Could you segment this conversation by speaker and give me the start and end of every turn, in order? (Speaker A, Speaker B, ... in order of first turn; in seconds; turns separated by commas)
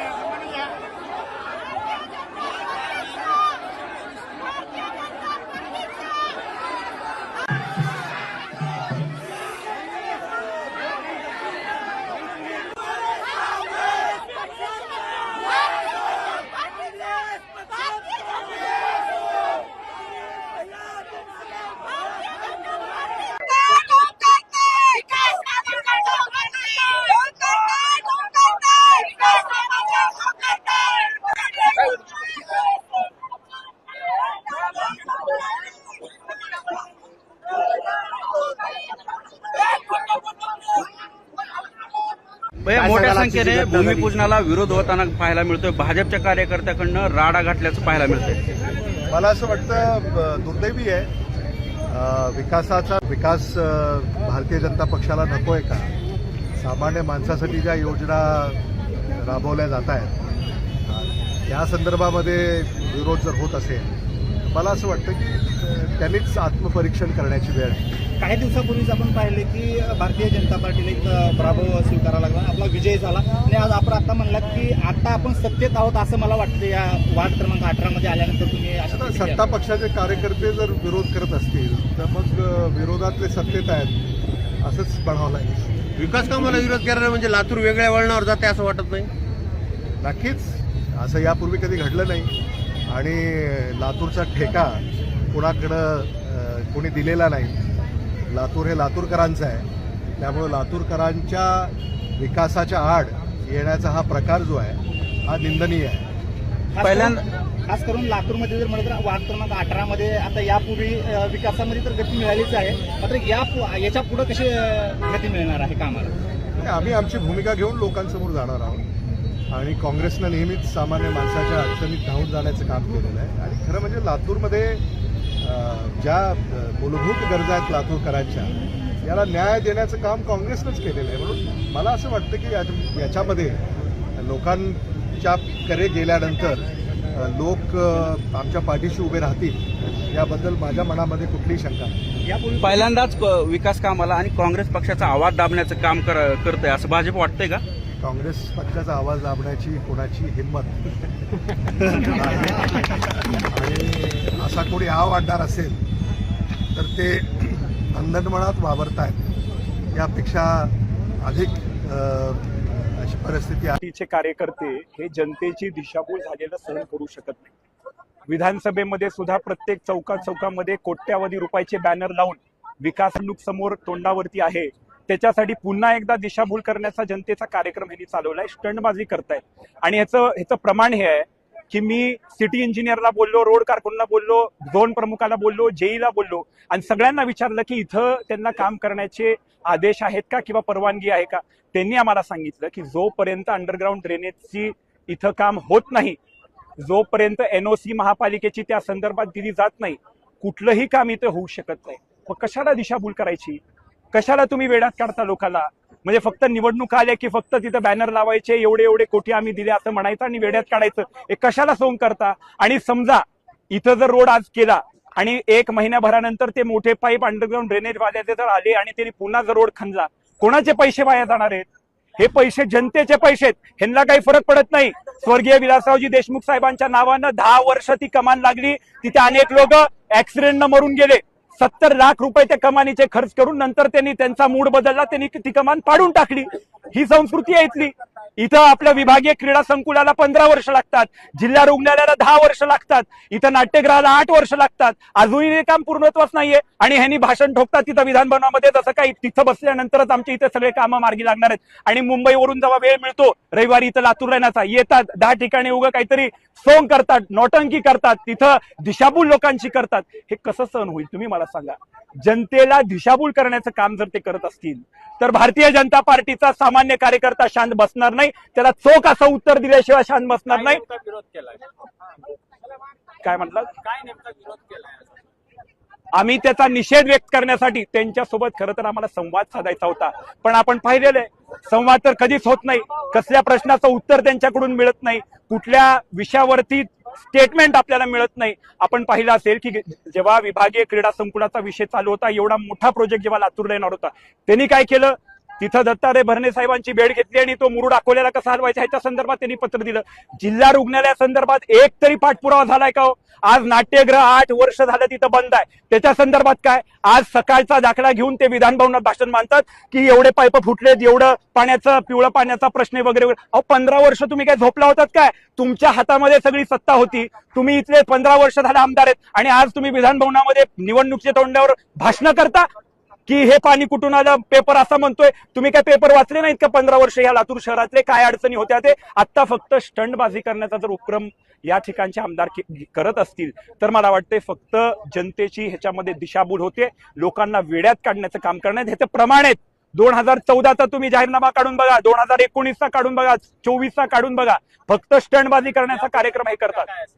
Speaker A: 42.6-48.4, Speaker B: 42.7-44.3, Speaker C: 49.1-51.1, Speaker C: 51.9-55.9, Speaker C: 56.6-60.1, Speaker C: 60.9-63.9, Speaker C: 64.4-67.8, Speaker D: 68.2-79.5, Speaker C: 78.9-84.0, Speaker C: 84.6-85.8, Speaker B: 86.0-89.1, Speaker C: 90.0-92.3, Speaker C: 92.9-97.6, Speaker C: 98.2-99.7, Speaker C: 100.2-106.0, Speaker D: 106.7-116.1, Speaker A: 106.8-107.2, Speaker C: 116.6-118.8, Speaker C: 119.5-124.8, Speaker C: 125.4-133.6, Speaker C: 134.2-142.0, Speaker D: 142.2-142.8, Speaker A: 142.6-147.6, Speaker C: 147.9-150.8, Speaker C: 151.7-155.8, Speaker C: 156.7-159.2, Speaker C: 159.9-163.8, Speaker E: 163.8-167.5, Speaker E: 168.3-196.2, Speaker E: 196.8-203.6, Speaker E: 204.1-221.7, Speaker E: 222.2-270.8, Speaker F: 270.5-271.6, Speaker E: 273.2-273.7, Speaker F: 273.8-275.1, Speaker E: 276.1-322.7, Speaker E: 323.3-346.9